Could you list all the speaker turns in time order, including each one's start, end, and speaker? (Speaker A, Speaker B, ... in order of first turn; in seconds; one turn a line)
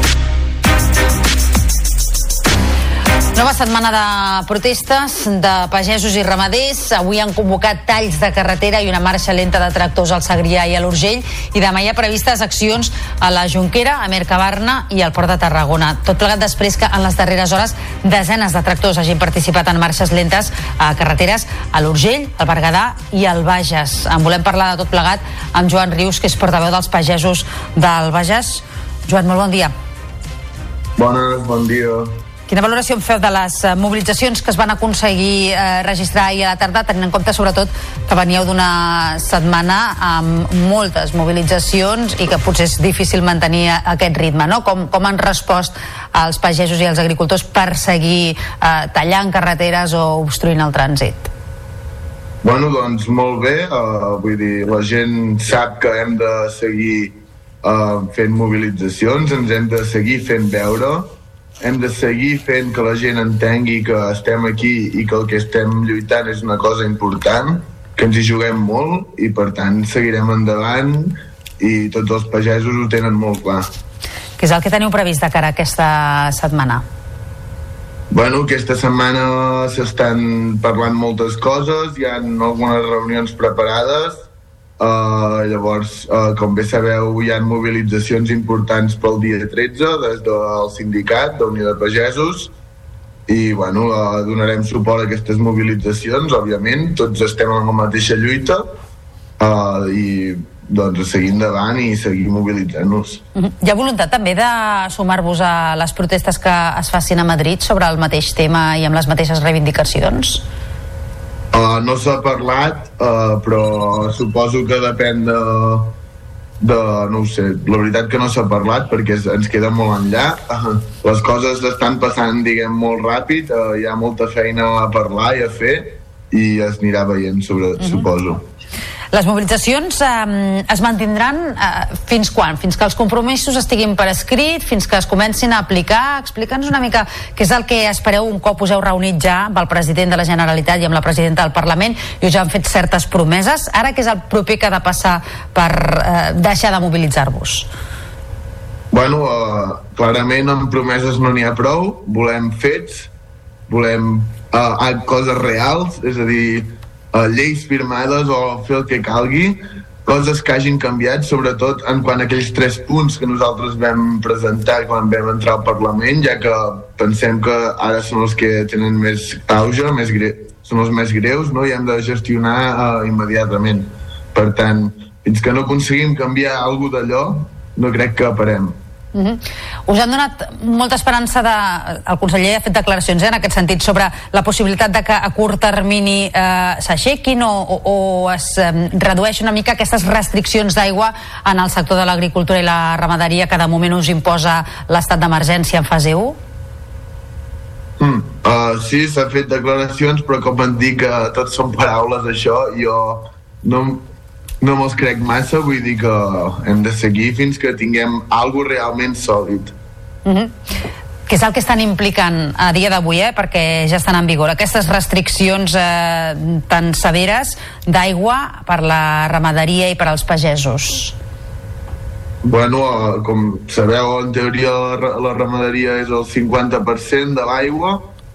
Speaker A: 3.4-29.7
Speaker B: 31.0-32.2
Speaker A: 32.5-51.3
Speaker B: 52.4-73.7
Speaker A: 74.4-76.8
Speaker B: 78.1-84.2
Speaker B: 84.8-92.5
Speaker B: 93.3-98.7
Speaker B: 99.4-103.2
Speaker A: 103.4-110.4
Speaker B: 111.5-116.0
Speaker B: 116.6-128.5
Speaker A: 129.1-147.7
Speaker B: 148.9-153.1
Speaker B: 153.7-178.8
Speaker A: 179.2-196.4
Speaker B: 198.0-204.1
Speaker B: 204.6-209.8
Speaker A: 210.3-210.5
Speaker A: 211.3-221.2
Speaker B: 222.4-228.1